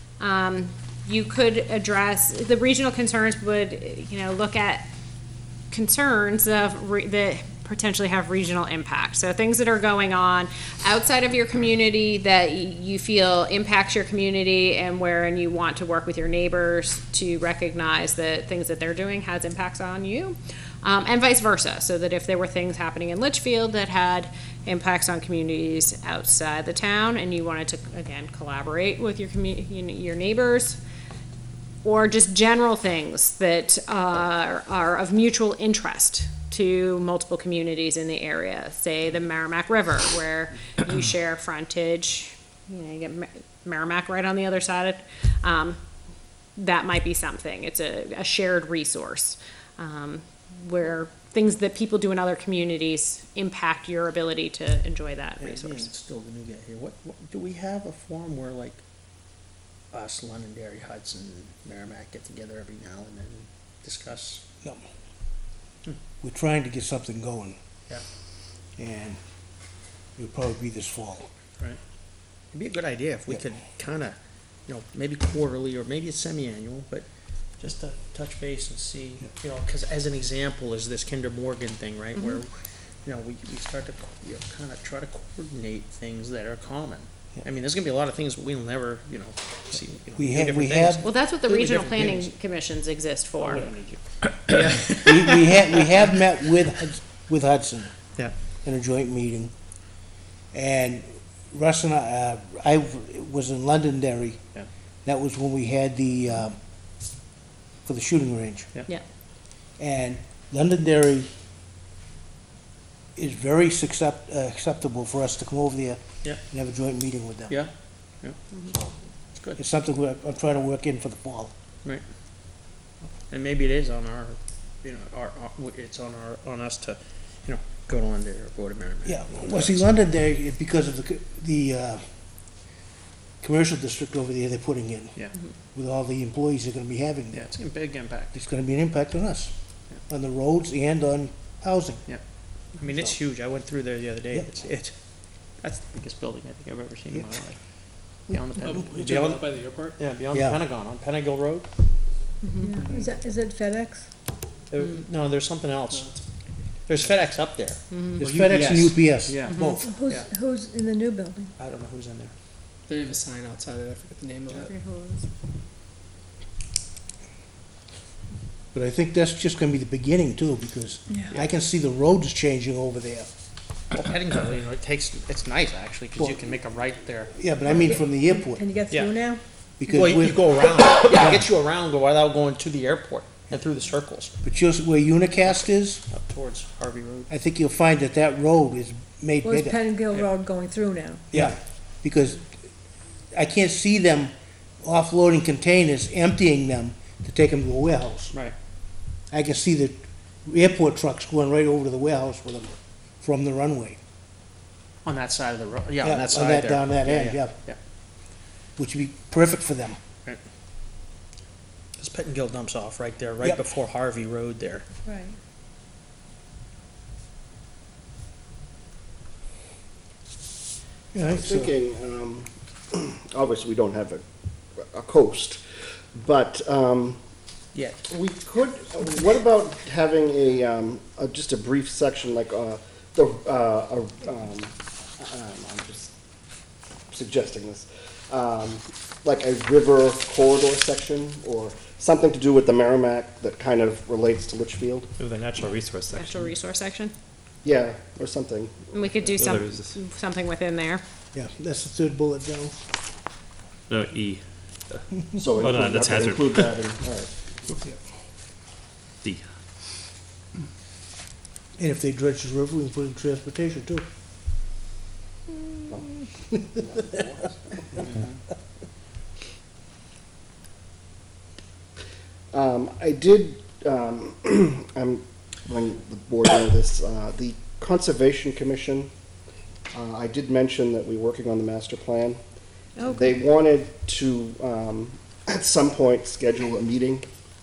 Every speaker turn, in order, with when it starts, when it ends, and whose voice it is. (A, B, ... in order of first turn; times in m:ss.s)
0:00.2-0:04.9 A
0:05.7-0:30.8 A
0:31.8-0:45.8 A
0:46.6-0:55.9 A
0:55.4-0:58.8 B
0:59.9-1:04.4 B
1:06.2-1:07.6 C
1:08.8-1:09.2 C
1:10.2-1:11.3 C
1:12.5-1:17.1 B
1:17.6-1:22.5 B
1:22.2-1:22.4 A
1:23.0-1:32.3 B
1:30.1-1:31.0 C
1:31.0-1:33.7 A
1:33.4-1:35.7 B
1:34.9-1:39.5 C
1:40.5-1:44.4 C
1:45.0-1:46.6 C
1:47.8-1:48.7 C
1:49.8-1:51.3 C
1:53.2-1:57.6 C
1:57.5-1:58.4 B
1:59.3-1:59.6 B
1:59.5-2:01.5 C
2:03.3-2:09.9 B
2:09.0-2:12.5 C
2:13.4-2:17.5 C
2:17.3-2:18.4 B
2:18.3-2:22.0 C
2:22.0-2:32.2 B
2:22.8-2:23.1 C
2:27.1-2:27.4 C
2:28.3-2:28.8 C
2:28.6-2:30.0 D
2:30.3-2:30.6 C
2:32.4-2:32.7 A
2:32.6-2:34.1 E
2:34.7-2:40.3 B
2:35.9-2:37.1 D
2:37.9-2:38.2 A
2:38.2-2:39.9 C
2:39.4-2:39.8 A
2:39.8-2:41.5 E
2:41.6-2:42.3 B
2:42.8-2:44.7 D
2:44.6-2:45.2 A
2:48.7-2:53.3 C
2:51.1-2:51.3 E
2:53.9-2:57.3 B
2:56.2-2:56.5 C
2:57.3-2:58.6 C
2:58.2-2:59.4 E
2:58.9-3:04.3 B
2:59.8-3:00.5 C
3:01.0-3:01.5 C
3:04.4-3:06.0 C
3:06.1-3:07.3 B
3:07.3-3:09.8 C
3:09.4-3:11.3 E
3:11.3-3:12.5 C
3:13.3-3:18.4 C
3:19.3-3:24.0 C
3:25.0-3:27.8 B
3:26.0-3:27.6 C
3:28.8-3:30.0 C
3:32.0-3:34.8 B
3:35.0-3:35.3 E
3:41.1-3:41.7 C
3:41.3-3:44.2 F
3:44.8-3:45.6 F
3:46.1-3:47.2 F
3:48.1-3:56.1 F
3:57.1-4:05.1 F
4:05.2-4:06.5 G
4:06.1-4:07.1 A
4:07.6-4:09.2 F
4:08.9-4:11.0 A
4:09.2-4:10.0 G
4:11.3-4:12.7 C
4:13.9-4:16.8 G
4:15.4-4:17.3 F
4:19.2-4:19.5 G
4:21.8-4:24.0 C
4:26.8-4:27.2 F
4:28.0-4:28.4 B
4:32.5-4:39.1 F
4:39.9-4:42.4 F
4:43.0-4:43.3 A
4:43.0-4:47.2 F